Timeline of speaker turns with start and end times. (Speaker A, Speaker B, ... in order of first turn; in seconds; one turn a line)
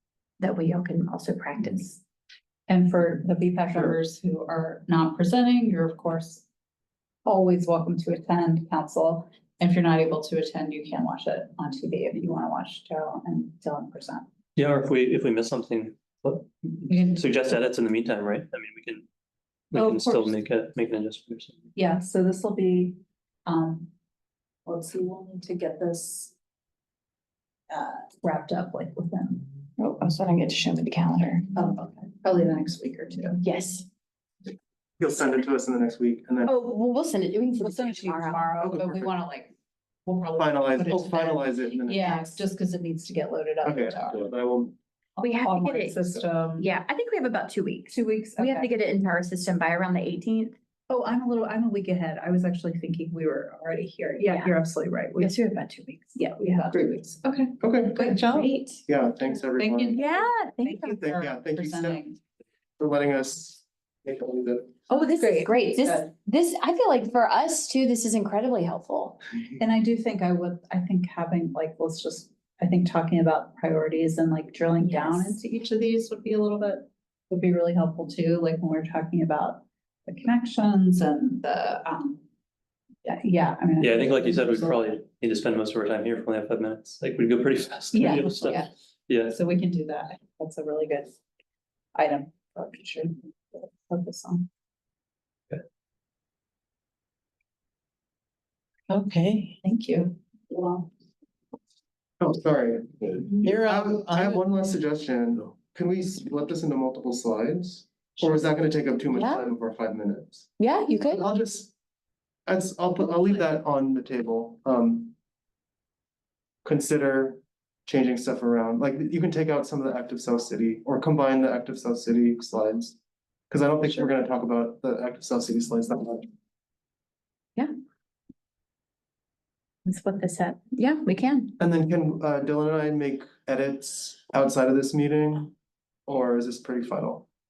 Speaker A: 0.4-2.0
Speaker B: 2.7-6.4
Speaker B: 7.2-14.3
Speaker C: 14.6-19.1
Speaker B: 16.9-17.2
Speaker C: 19.7-21.6
Speaker B: 19.7-20.3
Speaker B: 21.8-23.9
Speaker B: 24.7-26.3
Speaker B: 27.7-29.5
Speaker A: 29.8-31.5
Speaker B: 31.5-33.4
Speaker A: 33.4-33.9
Speaker D: 35.0-36.5
Speaker A: 36.5-38.5
Speaker B: 37.6-39.5
Speaker D: 38.6-39.1
Speaker B: 40.1-44.2
Speaker D: 40.3-42.2
Speaker D: 43.6-44.8
Speaker B: 45.2-46.7
Speaker A: 45.2-50.5
Speaker B: 47.9-48.7
Speaker B: 50.9-58.3
Speaker A: 54.2-54.5
Speaker A: 55.2-56.7
Speaker D: 56.7-57.0
Speaker D: 57.6-58.1
Speaker E: 58.1-58.6
Speaker A: 58.2-58.8
Speaker D: 58.9-60.0
Speaker B: 59.2-62.2
Speaker A: 59.9-61.0
Speaker D: 60.9-62.0
Speaker D: 62.8-64.8
Speaker A: 64.9-69.2
Speaker B: 64.9-66.1
Speaker B: 69.6-82.2
Speaker A: 74.8-75.4
Speaker B: 83.0-84.9
Speaker C: 83.8-89.4
Speaker B: 87.9-88.7
Speaker B: 89.3-91.2
Speaker B: 92.0-94.5
Speaker E: 98.9-99.6
Speaker B: 99.6-100.9
Speaker D: 102.2-110.5
Speaker E: 103.4-104.4
Speaker A: 109.1-109.5
Speaker A: 110.6-111.2
Speaker D: 111.1-111.7
Speaker D: 112.5-115.1
Speaker D: 116.7-123.0
Speaker D: 123.5-126.3
Speaker A: 129.8-131.6
Speaker D: 131.6-135.5
Speaker D: 136.1-137.3